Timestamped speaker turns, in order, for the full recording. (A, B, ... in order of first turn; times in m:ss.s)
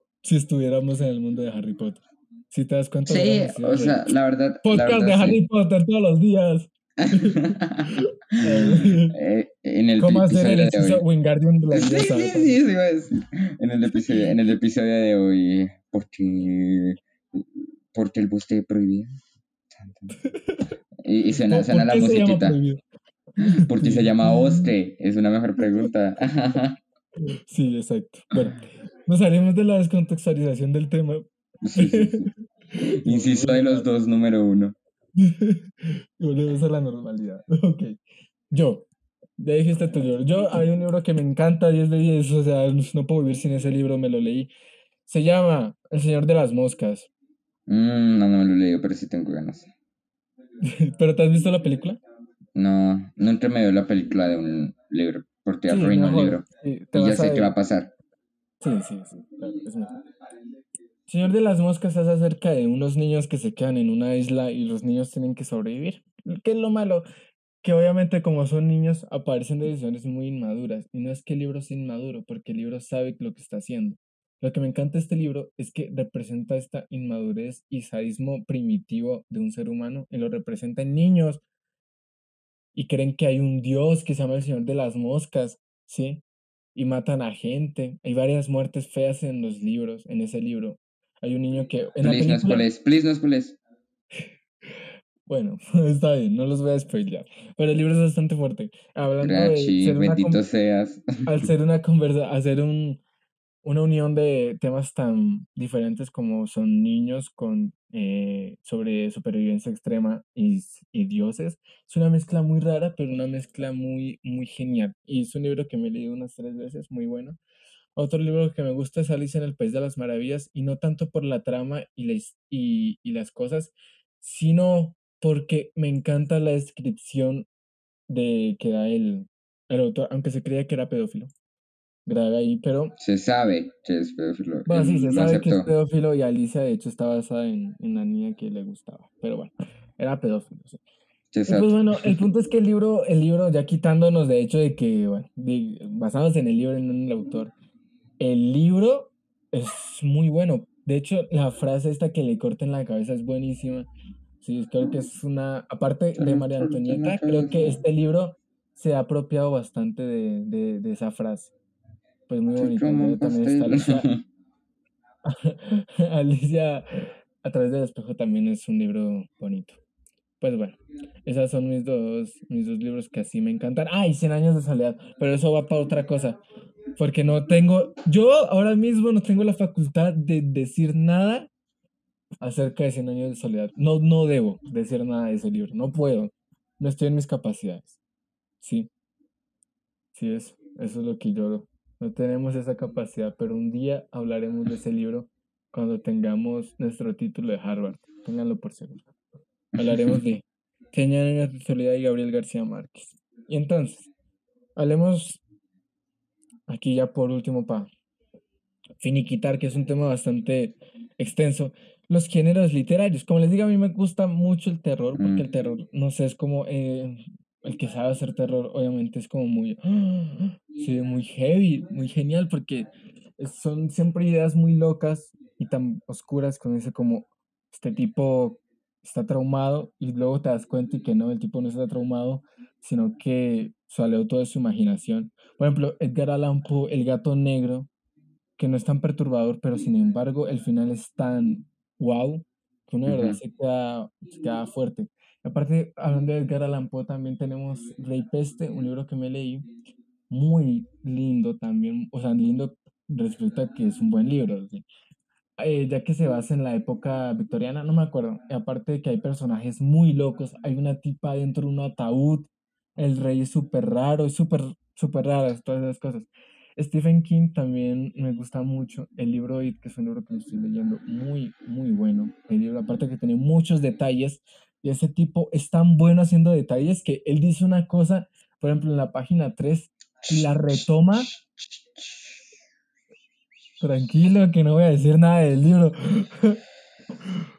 0:00.2-0:04.0 A
0:03.0-0:05.4 B
0:04.6-0:09.1 A
0:07.0-0:11.0 B
0:10.0-0:12.6 A
0:11.7-0:19.1 B
0:19.8-0:20.1 B
0:20.2-0:20.7 A
0:21.0-0:22.6 B
0:21.5-0:22.8 A
0:23.4-0:24.7 A
0:23.4-0:26.8 B
0:27.3-0:33.9 A
0:31.6-0:34.8 B
0:35.2-0:38.0 A
0:38.5-0:38.9 A
0:39.4-0:44.5 A
0:45.0-0:47.1 A
0:47.7-0:49.7 B
0:50.6-0:52.0 A
0:52.5-0:57.9 B
0:55.7-0:57.5 A
0:58.6-1:00.0 A
1:01.1-1:07.0 A
1:07.6-1:21.4 A
1:22.7-1:26.2 A
1:26.7-1:32.7 A
1:32.0-1:33.6 B
1:35.3-1:40.4 A
1:39.2-1:41.5 B
1:41.2-1:43.0 A
1:43.6-1:57.4 A
1:58.0-2:07.5 A
2:08.1-2:11.3 A
2:12.0-2:13.0 A
2:13.0-2:15.7 B
2:14.6-2:20.8 A
2:21.3-2:22.2 B
2:21.4-2:27.5 A
2:28.2-2:33.9 A
2:34.4-2:41.5 A
2:36.1-2:37.8 B
2:42.3-2:44.1 A
2:42.6-2:44.2 B
2:45.2-2:46.9 A
2:47.4-2:49.8 A
2:50.4-2:56.4 A
2:57.0-3:01.5 A
3:02.4-3:08.0 A
3:08.6-3:08.9 A
3:10.1-3:19.0 A
3:19.8-3:24.1 A
3:19.9-3:20.2 B
3:24.8-3:25.4 A
3:26.7-3:27.9 A
3:29.0-3:57.9 A
3:35.2-3:35.5 B
3:58.6-4:09.6 A
4:03.0-4:03.4 B
4:10.3-4:14.8 A
4:15.6-4:41.3 A
4:40.2-4:42.3 B
4:43.8-4:46.6 A